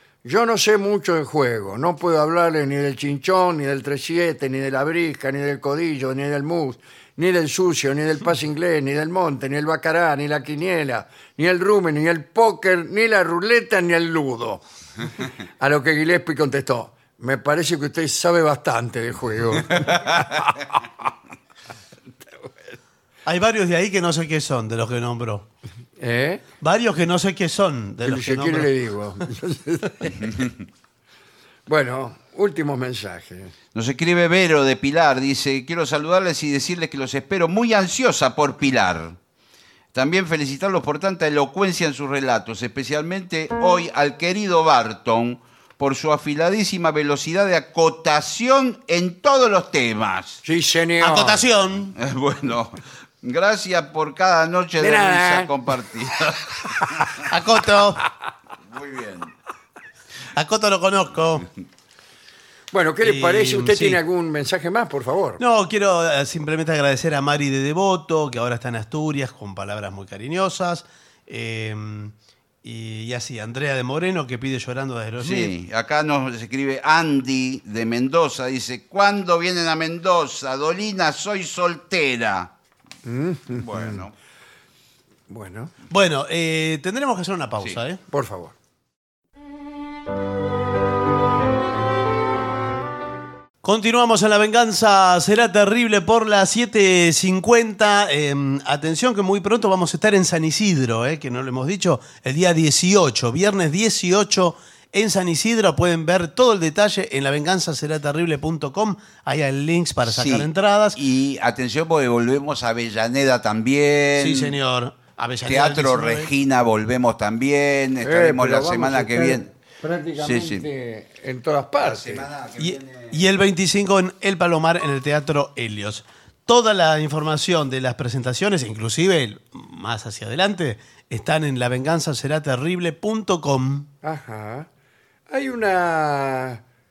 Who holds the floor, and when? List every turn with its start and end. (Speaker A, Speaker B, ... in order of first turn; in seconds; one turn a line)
Speaker A: 0.2-21.1
Speaker B: 23.2-25.5
Speaker A: 26.0-26.4
Speaker B: 26.6-28.7
Speaker A: 28.0-30.5
Speaker C: 30.2-30.5
Speaker A: 31.7-33.5
Speaker C: 33.7-39.2
Speaker C: 39.9-50.4
Speaker A: 50.4-51.4
Speaker B: 51.0-51.9
Speaker C: 51.9-57.2
Speaker A: 54.8-55.5
Speaker B: 57.3-58.0
Speaker C: 58.7-59.3
Speaker B: 60.3-61.5
Speaker A: 62.7-65.4
Speaker B: 63.0-64.0
Speaker B: 65.4-75.5
Speaker C: 75.2-82.5
Speaker A: 83.0-84.0
Speaker C: 83.5-84.1
Speaker A: 85.3-85.7
Speaker B: 85.9-88.0
Speaker A: 88.1-88.5
Speaker B: 93.6-111.0
Speaker C: 110.0-114.6
Speaker B: 114.2-116.3
Speaker C: 115.5-119.5
Speaker A: 118.0-122.3
Speaker C: 120.2-120.7
Speaker C: 121.8-123.2
Speaker B: 122.6-133.9
Speaker A: 134.0-134.7
Speaker A: 135.3-136.6